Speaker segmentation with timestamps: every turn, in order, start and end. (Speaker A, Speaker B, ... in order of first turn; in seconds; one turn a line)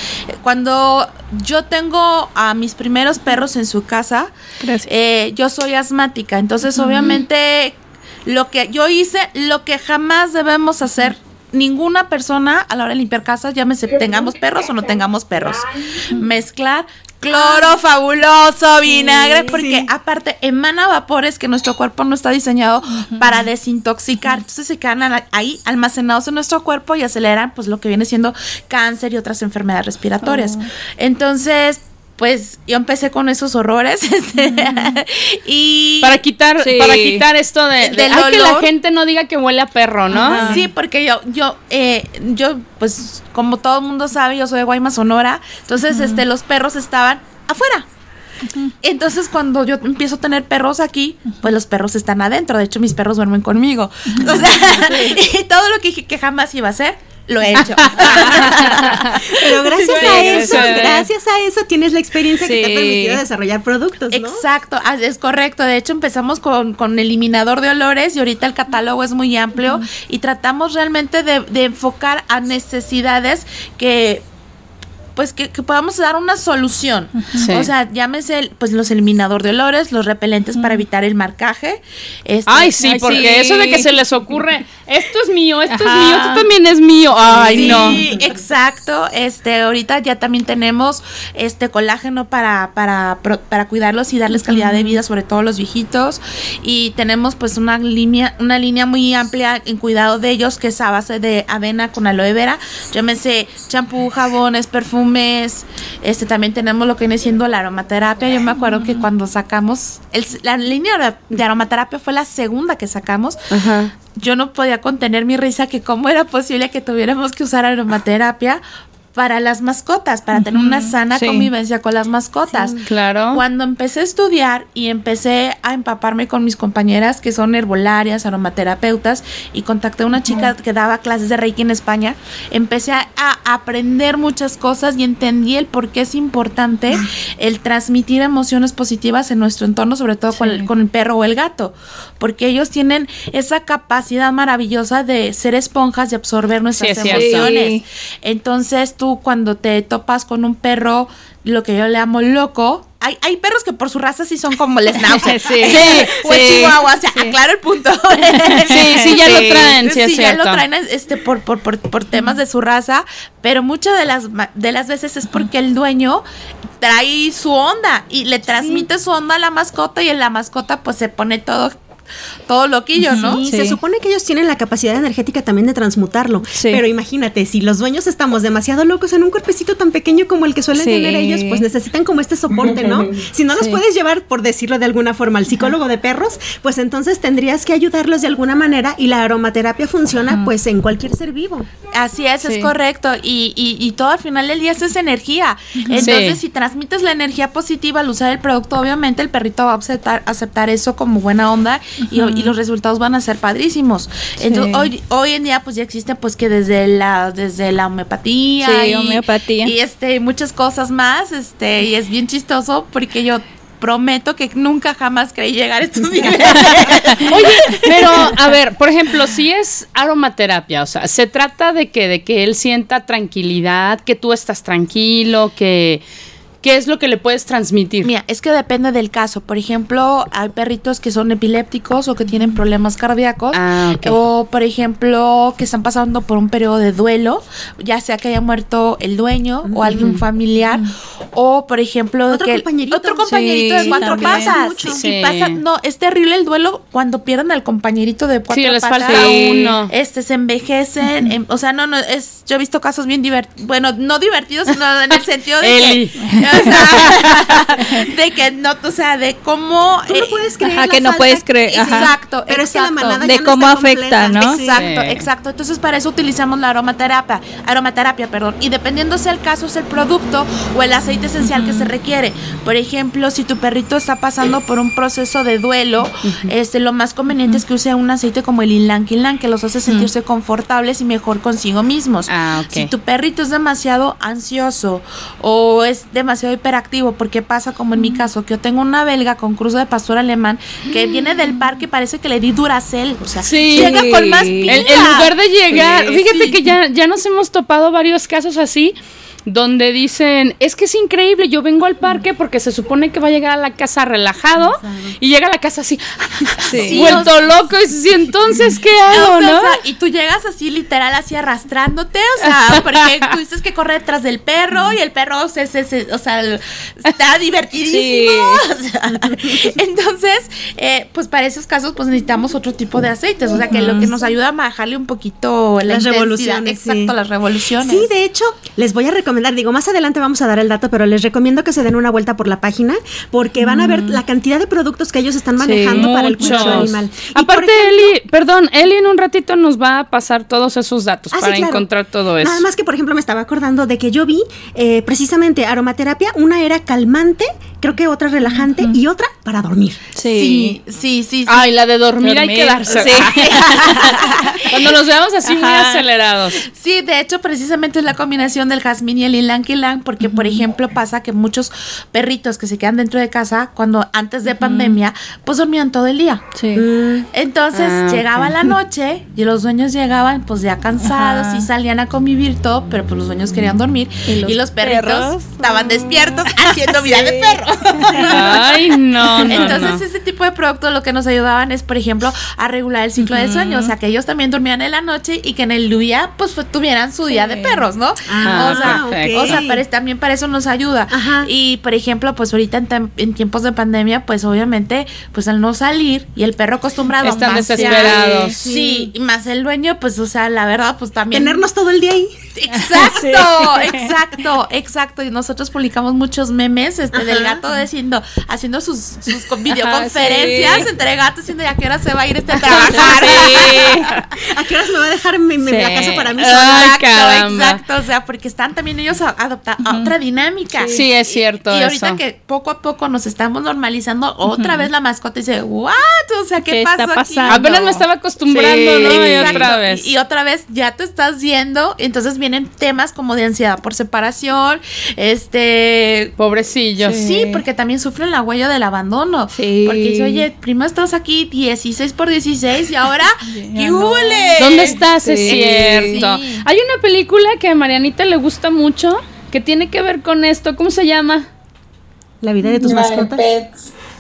Speaker A: 0.3-4.3
Speaker B: 4.6-4.9
Speaker A: 4.8-7.8
Speaker B: 6.7-7.2
Speaker A: 8.3-36.2
Speaker C: 13.9-15.8
Speaker B: 18.9-19.5
Speaker D: 19.5-19.9
Speaker B: 22.9-23.4
Speaker B: 30.2-30.7
Speaker B: 34.4-35.0
Speaker E: 36.0-40.6
Speaker B: 36.6-37.3
Speaker A: 37.8-38.7
Speaker B: 40.1-40.7
Speaker A: 40.2-47.9
Speaker B: 45.9-46.2
Speaker A: 48.8-59.1
Speaker B: 54.1-55.2
Speaker B: 57.5-61.1
Speaker D: 59.1-64.4
Speaker E: 59.8-60.9
Speaker B: 62.4-63.2
Speaker A: 64.1-74.2
Speaker B: 69.6-69.8
Speaker A: 75.2-83.2
Speaker B: 77.2-77.5
Speaker E: 77.4-77.7
Speaker B: 80.6-80.8
Speaker E: 82.5-88.0
Speaker B: 82.8-83.9
Speaker B: 85.7-86.5
Speaker B: 87.5-88.0
Speaker A: 87.5-118.6
Speaker B: 94.3-95.0
Speaker B: 108.7-109.0
Speaker E: 113.5-113.9
Speaker A: 119.1-166.2
Speaker B: 120.3-121.5
Speaker E: 122.9-123.4
Speaker B: 140.3-140.7
Speaker E: 146.8-147.5
Speaker B: 147.0-147.8
Speaker B: 154.9-157.4
Speaker B: 158.3-159.7
Speaker E: 158.7-160.6
Speaker A: 166.8-171.8
Speaker B: 168.6-168.8
Speaker A: 172.5-173.4
Speaker B: 173.0-173.8
Speaker D: 173.2-191.7
Speaker B: 176.5-176.8
Speaker B: 180.8-181.7
Speaker C: 182.5-183.2
Speaker B: 183.5-183.8
Speaker A: 191.9-218.3
Speaker B: 192.4-192.7
Speaker B: 195.8-196.2
Speaker E: 196.0-196.4
Speaker B: 202.0-202.5
Speaker B: 204.4-204.9
Speaker B: 208.6-209.7
Speaker E: 217.2-226.0
Speaker E: 226.6-228.1
Speaker A: 228.0-260.4
Speaker B: 232.3-232.6
Speaker E: 233.5-234.2
Speaker D: 239.7-240.1
Speaker D: 242.3-245.0
Speaker B: 243.3-244.6
Speaker E: 244.9-245.6
Speaker E: 248.5-249.9
Speaker B: 249.0-249.8
Speaker E: 255.6-257.1
Speaker B: 256.2-257.1
Speaker D: 260.1-264.9
Speaker B: 260.6-262.1
Speaker A: 261.7-263.3
Speaker B: 263.2-264.6
Speaker A: 264.6-296.6
Speaker E: 264.7-265.2
Speaker B: 271.4-271.9
Speaker E: 276.2-276.5
Speaker B: 277.4-277.6
Speaker E: 282.3-282.9
Speaker B: 288.0-288.3
Speaker B: 291.3-291.6
Speaker E: 293.4-294.0
Speaker B: 293.6-295.0
Speaker E: 294.7-309.8
Speaker D: 304.6-305.2
Speaker B: 306.6-307.2
Speaker A: 306.9-307.4
Speaker A: 309.1-328.1
Speaker B: 317.8-318.6
Speaker B: 323.6-324.1
Speaker D: 325.9-327.1
Speaker D: 327.8-338.2
Speaker B: 333.6-334.2
Speaker B: 335.6-337.0
Speaker E: 335.9-342.6
Speaker D: 341.3-341.9
Speaker D: 342.4-350.1
Speaker B: 348.6-349.0
Speaker B: 350.1-350.8
Speaker A: 350.3-351.7
Speaker E: 351.5-354.1
Speaker B: 352.2-354.6
Speaker A: 353.2-354.8
Speaker E: 354.7-356.6
Speaker B: 355.5-356.1
Speaker A: 356.7-366.4
Speaker B: 360.2-360.6
Speaker B: 364.6-365.0
Speaker B: 366.6-366.9
Speaker D: 366.8-367.3
Speaker A: 367.3-378.6
Speaker E: 367.7-368.5
Speaker B: 371.0-371.7
Speaker B: 374.3-378.6
Speaker E: 378.2-380.0
Speaker B: 379.3-379.9
Speaker A: 379.4-401.7
Speaker B: 383.2-383.9
Speaker B: 387.3-387.9
Speaker D: 388.3-389.8
Speaker E: 388.5-389.6
Speaker D: 391.1-391.5
Speaker E: 397.2-398.6
Speaker B: 397.2-398.6
Speaker D: 398.6-399.1
Speaker D: 401.3-402.4
Speaker A: 402.6-413.9
Speaker B: 402.7-404.1
Speaker D: 407.1-407.6
Speaker B: 409.7-410.9
Speaker B: 412.6-414.2
Speaker E: 412.7-414.0
Speaker D: 414.5-416.8
Speaker E: 415.6-417.8
Speaker A: 416.4-427.7
Speaker B: 419.8-420.1
Speaker B: 420.7-421.1
Speaker E: 420.9-422.2
Speaker B: 424.5-424.9
Speaker B: 426.7-429.8
Speaker E: 427.5-430.1
Speaker A: 428.6-436.3
Speaker E: 436.4-437.2
Speaker B: 437.0-437.6
Speaker A: 437.1-446.6
Speaker B: 439.5-440.5
Speaker B: 443.5-446.3
Speaker E: 444.6-451.5
Speaker D: 452.4-453.4
Speaker C: 452.7-453.9